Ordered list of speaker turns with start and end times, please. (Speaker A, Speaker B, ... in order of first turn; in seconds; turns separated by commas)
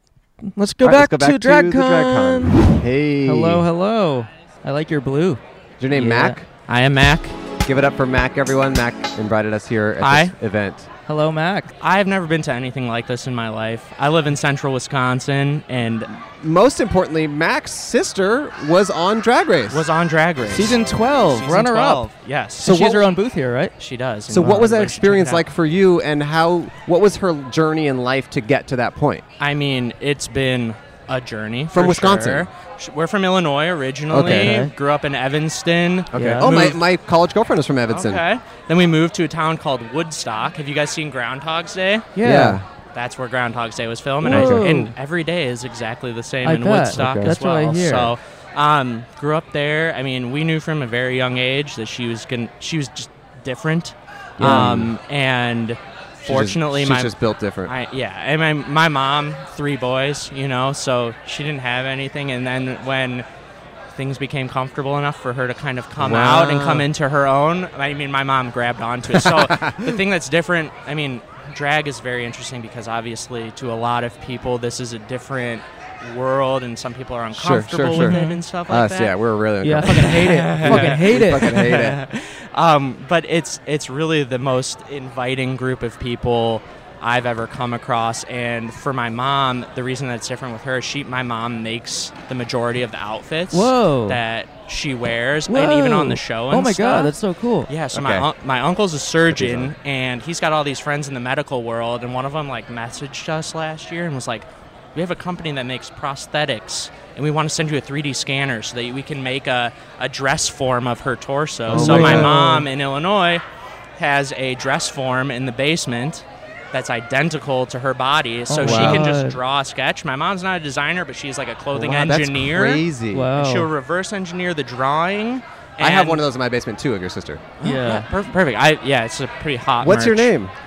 Speaker A: 0.5-6.4, Speaker B: 0.8-3.6, Speaker B: 5.8-6.5, Speaker C: 6.7-7.3, Speaker B: 7.6-10.9, Speaker C: 10.0-10.3, Speaker A: 11.1-11.7, Speaker C: 11.8-16.1, Speaker B: 16.4-19.9, Speaker C: 19.7-22.8, Speaker A: 20.5-23.7, Speaker B: 22.6-23.1, Speaker C: 23.8-25.4, Speaker B: 24.3-29.2, Speaker C: 29.4-36.8, Speaker B: 31.7-32.5, Speaker B: 34.1-34.6, Speaker A: 34.2-34.7, Speaker B: 36.1-38.2, Speaker A: 36.1-36.7, Speaker C: 37.9-42.1, Speaker A: 42.1-42.6, Speaker B: 42.2-42.6, Speaker C: 42.9-63.2, Speaker A: 44.2-44.9, Speaker B: 44.2-44.7, Speaker A: 46.4-48.2, Speaker B: 46.9-47.4, Speaker B: 54.4-54.9, Speaker A: 54.4-54.7, Speaker B: 56.2-57.7, Speaker C: 63.9-79.1, Speaker B: 66.0-66.9, Speaker B: 69.1-70.0, Speaker B: 77.3-82.0, Speaker A: 77.9-78.4, Speaker A: 79.6-81.5, Speaker C: 79.9-97.1, Speaker A: 93.5-94.2, Speaker A: 95.5-97.7, Speaker C: 97.7-113.4, Speaker B: 97.9-98.3, Speaker B: 99.3-99.7, Speaker B: 111.7-112.4, Speaker A: 111.7-112.7, Speaker C: 114.0-122.8, Speaker A: 118.5-119.4, Speaker B: 118.6-119.1, Speaker B: 121.7-123.3, Speaker A: 123.1-123.7, Speaker C: 123.4-126.2, Speaker B: 125.8-127.4, Speaker C: 127.6-130.3, Speaker A: 127.6-128.1, Speaker B: 129.8-130.5